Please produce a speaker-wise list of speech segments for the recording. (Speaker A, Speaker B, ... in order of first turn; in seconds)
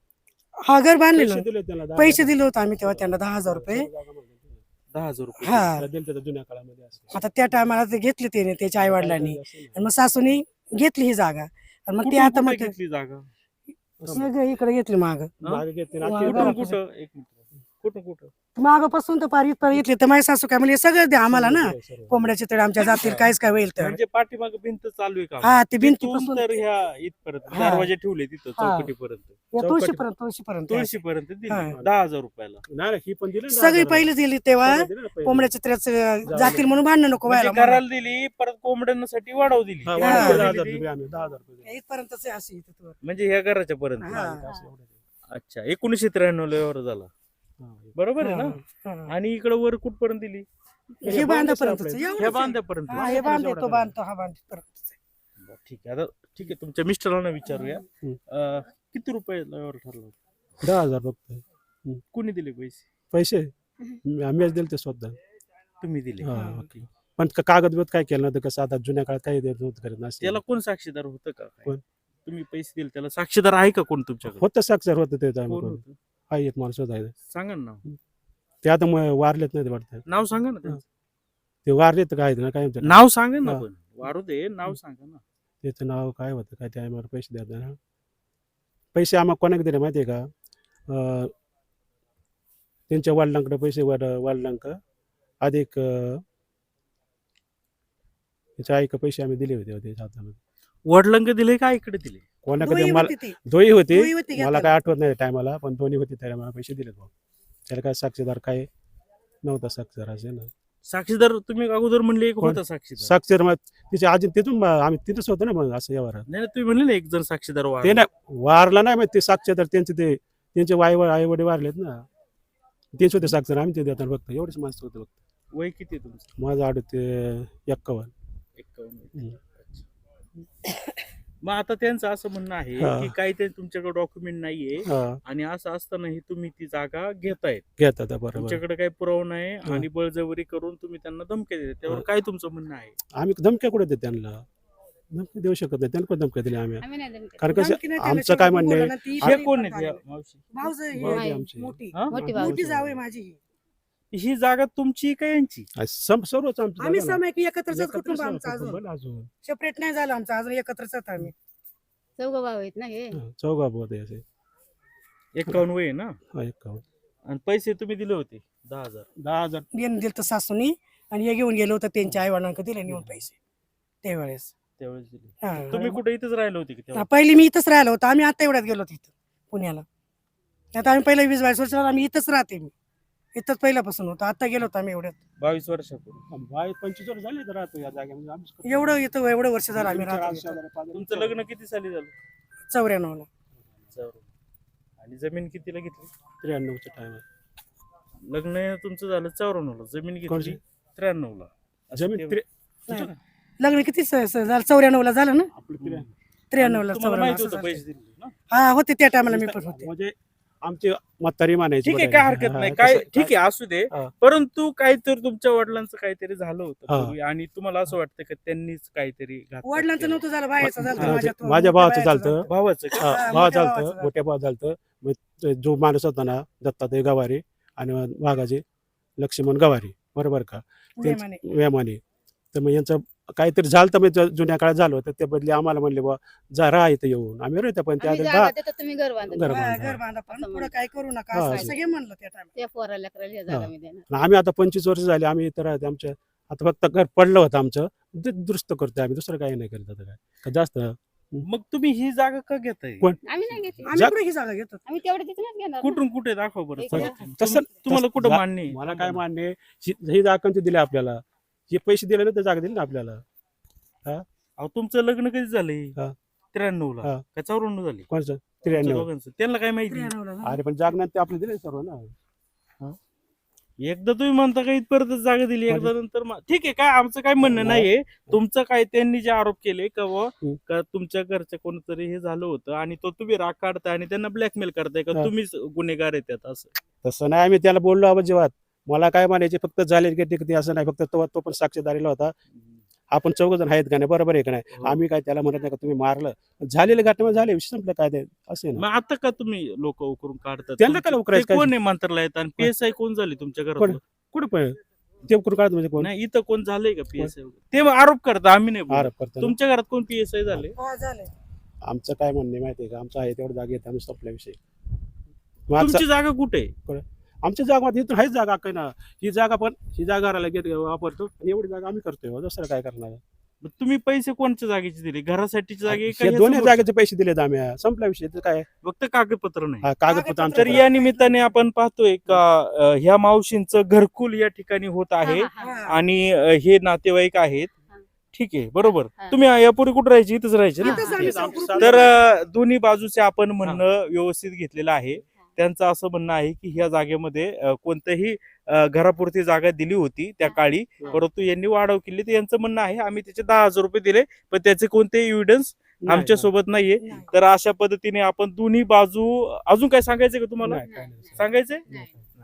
Speaker A: 0.7-3.9, 5.4-5.9, 7.1-12.7, 14.0-15.3, 16.0-16.8, 18.6-24.0, 25.4-26.5, 27.5-27.9, 28.6-28.9, 29.5-30.9, 33.5-37.8, 40.0-40.5, 41.6-43.0, 44.0-44.4, 48.2-49.1, 51.0-55.0, 66.3-66.6, 102.6-103.4, 103.9-104.8, 147.5-150.0, 150.5-153.4, 156.8-158.8, 159.4-161.3, 169.7-173.3, 174.0-174.5, 175.4-176.0, 176.9-179.8, 180.8-182.7, 183.4-185.2, 188.7-190.6, 192.7-193.3, 202.9-205.5, 206.5-207.8, 208.5-209.9, 219.7-224.1, 231.0-231.4, 239.4-242.5, 253.9-254.8, 269.9-270.6, 310.8-311.3, 330.1-331.3, 335.6-336.0, 340.8-342.1, 357.0-357.3
Speaker B: 1.1-4.6, 5.7-7.7, 8.8-9.8, 14.0-14.3, 15.4-16.7, 21.3-22.3, 22.9-23.3, 29.6-30.1, 32.7-35.5, 36.3-36.8, 39.9-41.7, 44.0-45.0, 47.6-47.9, 51.0-54.0, 60.6-62.0, 63.1-63.5, 64.0-65.2, 66.2-70.4, 74.3-77.1, 78.6-80.0, 81.7-83.6, 85.6-87.8, 89.0-90.2, 90.9-91.3, 92.9-94.8, 95.4-96.2, 98.6-100.4, 102.5-107.1, 107.7-108.7, 109.4-110.5, 112.4-116.3, 117.8-122.0, 123.0-125.2, 126.4-128.1, 132.8-133.1, 134.8-135.2, 137.8-138.6, 143.2-144.4, 145.1-146.8, 147.4-149.4, 150.9-153.0, 155.8-159.3, 163.1-164.2, 166.3-166.8, 169.2-169.7, 172.9-173.2, 186.3-189.0, 189.7-191.4, 196.4-197.2, 200.3-200.6, 201.9-202.5, 205.5-206.1, 209.3-213.3, 216.9-217.1, 220.6-222.5, 223.0-228.6, 229.2-232.0, 232.5-238.5, 239.3-240.0, 241.3-241.8, 243.5-251.4, 253.0-254.2, 256.9-263.2, 268.1-269.1, 270.4-272.1, 277.4-278.4, 287.0-292.3, 293.1-298.9, 300.8-301.7, 303.8-306.1, 308.9-309.6, 311.9-314.6, 315.7-316.0, 316.9-323.2, 325.9-328.7, 329.8-330.9, 340.9-342.2, 356.0-356.5, 360.6-362.3
Speaker C: 4.9-5.7, 12.0-13.3, 15.4-18.3, 22.8-23.2, 23.8-29.4, 30.7-32.6, 37.3-40.8, 43.0-44.2, 45.3-47.1, 48.0-50.5, 52.2-53.3, 55.4-60.1, 62.1-62.9, 65.8-66.9, 70.2-71.7, 72.3-74.4, 75.5-76.0, 77.3-77.8, 80.1-80.8, 82.8-85.2, 100.9-102.2, 110.9-113.1, 116.3-118.0, 125.5-126.3, 128.6-129.8, 131.4-137.6, 138.3-142.9, 149.2-150.4, 154.1-155.7, 165.3-166.2, 167.3-169.1, 174.8-177.1, 185.4-186.2, 190.9-192.1, 193.9-194.2, 195.0-196.1, 198.2-203.2, 205.8-208.3, 211.8-220.2, 222.5-223.4, 251.4-253.1, 255.8-259.2, 264.6-265.9, 266.5-268.1, 268.7-270.1, 273.8-286.7, 298.8-304.0, 306.0-310.7, 315.8-316.7, 323.6-326.9, 328.8-329.9, 330.6-337.7, 338.3-361.9
Speaker D: 146.8-147.5, 151.1-151.5, 152.1-152.6, 162.2-163.2, 238.0-240.7, 242.6-244.1, 253.2-253.9, 254.9-256.0, 256.8-257.2, 335.2-335.9, 338.8-339.4, 360.8-362.1